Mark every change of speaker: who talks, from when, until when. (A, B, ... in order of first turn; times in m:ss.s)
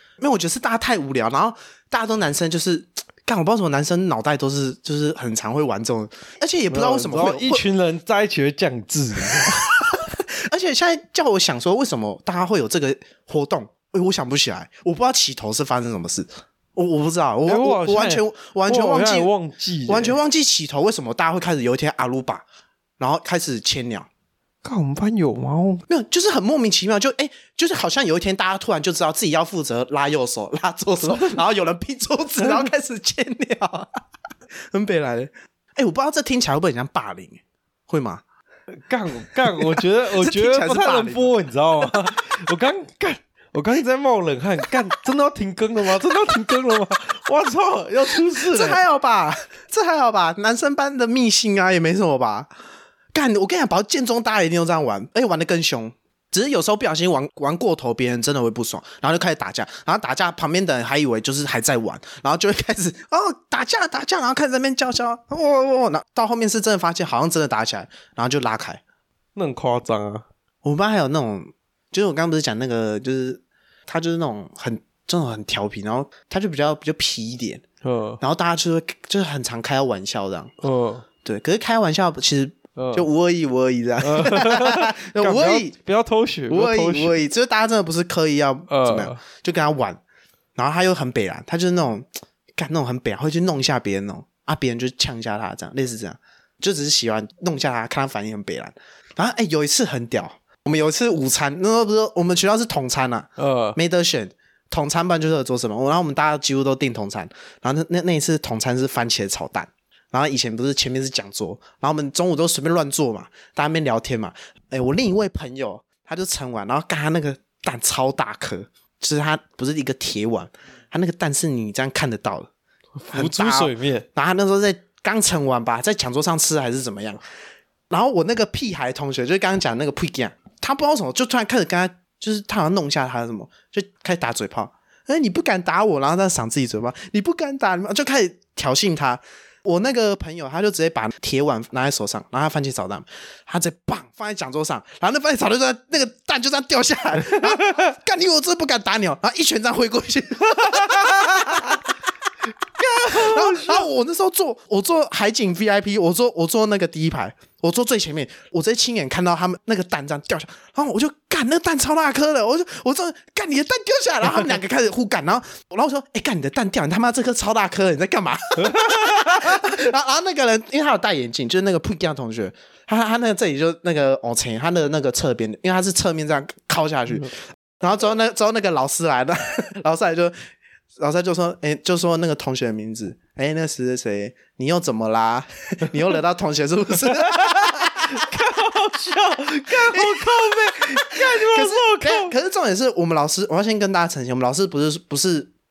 0:00.2-0:07.6 A
0:06.7-0:09.7 B
0:09.3-0:19.3 A
0:17.4-0:20.2 B
0:19.9-0:22.4 A
0:23.0-0:24.1 A
0:24.6-0:25.8 B
0:25.9-0:33.9 A
0:34.7-0:38.2 A
0:38.8-0:48.8 B
0:39.4-0:41.3 A
0:48.3-0:52.5 A
0:53.1-1:08.8 A
1:09.3-1:10.2 B
1:10.6-1:17.6 A
1:17.8-1:18.2 B
1:18.2-1:20.5 A
1:20.6-1:21.0 B
1:21.2-1:25.7 A
1:22.8-1:23.1 B
1:24.0-1:27.2 B
1:26.5-1:30.0 A
1:28.7-1:29.2 B
1:30.6-2:02.5 A
1:43.4-1:43.8 B
2:03.0-2:04.0 B
2:03.1-2:07.2 A
2:07.9-2:31.9 A
2:27.3-2:27.6 B
2:30.6-2:31.7 B
2:32.8-2:33.9 B
2:33.0-3:08.3 A
2:48.6-2:49.7 B
3:07.1-3:12.3 B
3:09.8-3:15.5 A